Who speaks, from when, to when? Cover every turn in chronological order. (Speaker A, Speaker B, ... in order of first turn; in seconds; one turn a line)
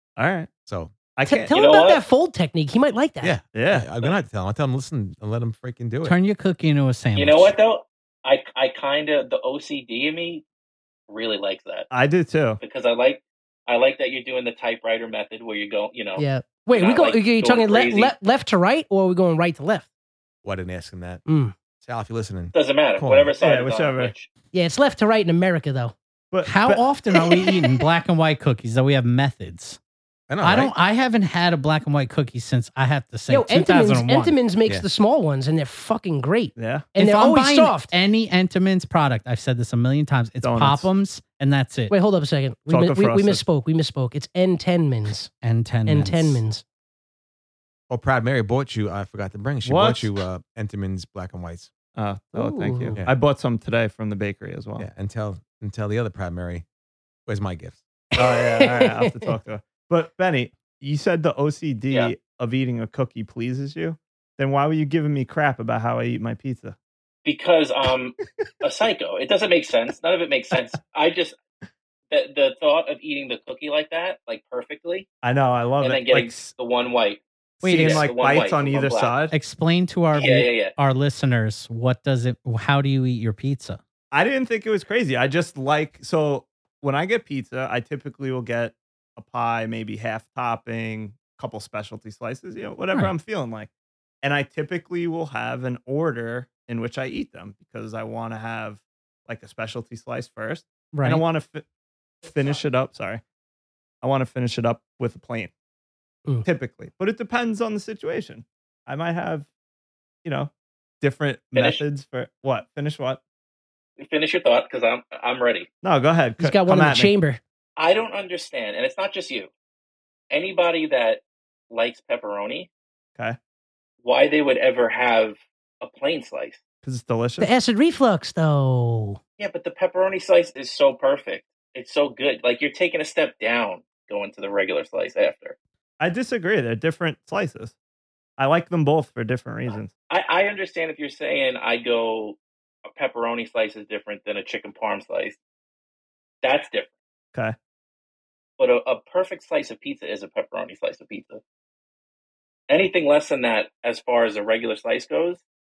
Speaker A: 0.2-0.5
Speaker B: 0.7-0.9
Speaker A: 1.1-1.5
Speaker C: 1.2-3.4
Speaker D: 1.5-2.0
Speaker B: 3.2-6.2
Speaker A: 3.5-3.9
Speaker E: 6.0-7.5
Speaker D: 7.1-10.4
Speaker D: 11.1-11.9
Speaker A: 11.9-12.6
Speaker D: 12.6-18.1
Speaker C: 16.2-19.9
Speaker B: 20.4-21.2
Speaker C: 21.3-21.5
Speaker B: 21.8-23.3
Speaker D: 22.5-24.3
Speaker A: 23.4-24.1
Speaker C: 24.5-25.9
Speaker A: 26.3-27.4
Speaker E: 26.4-29.8
Speaker B: 30.3-30.7
Speaker E: 30.4-34.3
Speaker C: 33.3-37.9
Speaker A: 36.5-36.9
Speaker E: 37.0-41.9
Speaker A: 40.4-40.9
Speaker C: 41.9-45.3
Speaker A: 42.7-43.4
Speaker E: 45.4-46.4
Speaker C: 45.9-46.6
Speaker B: 47.9-51.7
Speaker A: 49.6-50.1
Speaker A: 51.9-54.9
Speaker C: 52.3-53.0
Speaker B: 54.8-56.6
Speaker B: 57.3-57.8
Speaker A: 58.1-66.8
Speaker C: 58.5-59.3
Speaker D: 61.9-62.1
Speaker D: 67.2-71.4
Speaker D: 72.1-75.1
Speaker A: 75.2-76.5
Speaker D: 75.8-77.2
Speaker E: 77.6-78.0
Speaker A: 77.6-79.3
Speaker D: 77.8-79.2
Speaker E: 79.3-83.8
Speaker D: 80.1-80.7
Speaker A: 84.1-93.7
Speaker A: 94.2-101.6
Speaker C: 100.9-101.2
Speaker A: 102.2-103.2
Speaker A: 104.0-105.5
Speaker A: 106.4-109.5
Speaker A: 110.2-113.2
Speaker D: 111.5-111.8
Speaker D: 114.0-115.7
Speaker A: 115.8-117.1
Speaker C: 116.4-117.4
Speaker D: 117.8-119.5
Speaker D: 120.3-122.7
Speaker D: 124.0-126.6
Speaker A: 126.8-127.5
Speaker C: 127.4-129.2
Speaker D: 129.4-135.6
Speaker A: 136.0-137.7
Speaker A: 138.4-139.9
Speaker D: 140.1-142.4
Speaker D: 142.9-145.4
Speaker D: 146.4-146.9
Speaker D: 148.6-151.4
Speaker D: 152.7-155.4